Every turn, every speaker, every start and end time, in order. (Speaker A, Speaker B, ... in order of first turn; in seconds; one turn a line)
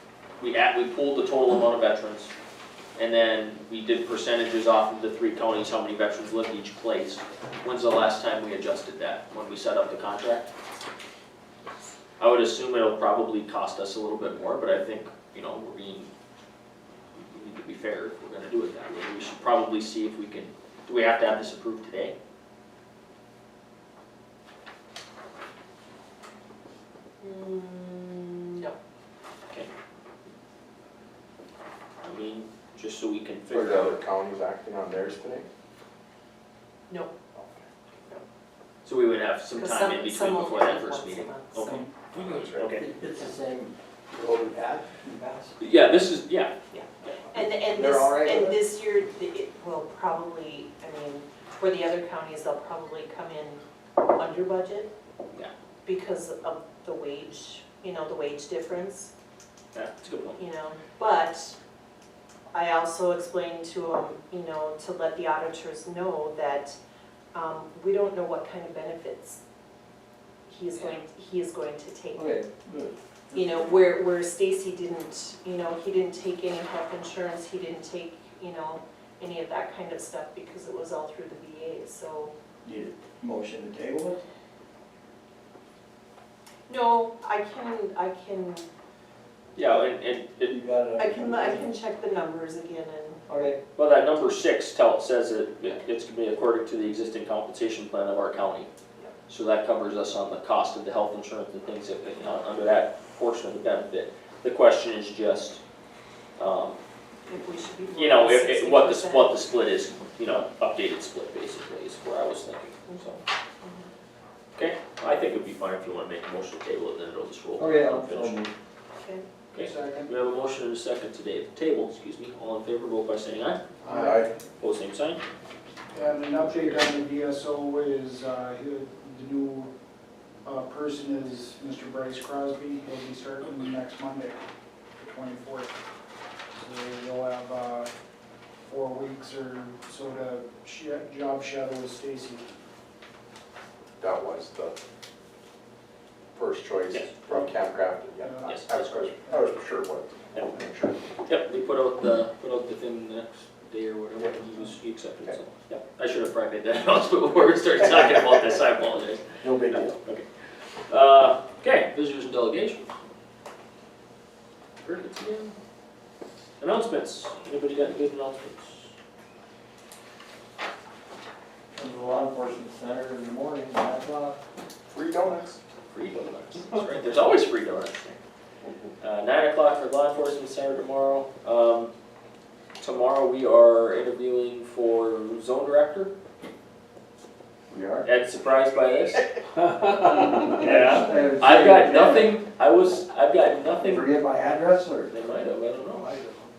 Speaker A: 0.4-2.3
Speaker A: 3.0-10.5
Speaker A: 12.2-16.1
Speaker A: 17.1-22.1
Speaker B: 27.2-28.8
Speaker A: 32.0-34.0
Speaker C: 33.5-35.5
Speaker C: 37.4-37.7
Speaker A: 38.8-42.9
Speaker B: 39.5-41.9
Speaker C: 42.1-42.8
Speaker D: 42.6-45.6
Speaker A: 45.6-46.5
Speaker B: 46.7-54.9
Speaker D: 47.7-48.6
Speaker B: 55.9-59.1
Speaker A: 59.7-60.4
Speaker B: 60.4-61.6
Speaker B: 62.5-66.8
Speaker B: 67.3-69.4
Speaker B: 70.5-72.4
Speaker D: 72.2-73.8
Speaker B: 73.3-82.3
Speaker D: 82.7-84.2
Speaker B: 86.7-88.7
Speaker A: 89.5-90.6
Speaker D: 90.5-91.7
Speaker B: 91.0-93.2
Speaker D: 93.3-93.6
Speaker A: 93.8-98.7
Speaker A: 99.3-105.6
Speaker A: 106.4-106.8
Speaker B: 107.3-109.3
Speaker A: 108.0-113.2
Speaker B: 112.9-113.9
Speaker A: 114.5-118.4
Speaker D: 117.6-118.5
Speaker B: 119.0-119.3
Speaker A: 119.5-123.6
Speaker E: 119.6-120.1
Speaker C: 123.8-124.3
Speaker E: 123.9-124.3
Speaker A: 124.6-125.2
Speaker E: 125.9-129.7
Speaker E: 130.4-134.4
Speaker E: 135.0-135.7
Speaker E: 136.6-137.9
Speaker E: 138.6-142.5
Speaker C: 144.0-144.8
Speaker C: 146.3-151.0
Speaker A: 146.9-147.3
Speaker E: 148.2-148.6
Speaker A: 148.4-149.1
Speaker A: 151.3-160.3
Speaker D: 159.4-159.8
Speaker A: 160.9-163.0
Speaker A: 164.8-165.6
Speaker A: 166.6-168.9
Speaker D: 171.8-174.4
Speaker C: 174.9-175.6
Speaker A: 175.8-178.2
Speaker A: 179.0-181.9
Speaker A: 182.8-186.1
Speaker D: 187.7-188.1
Speaker A: 188.0-189.3
Speaker A: 189.9-194.1
Speaker D: 190.4-192.4
Speaker D: 193.8-195.2
Speaker A: 195.1-196.1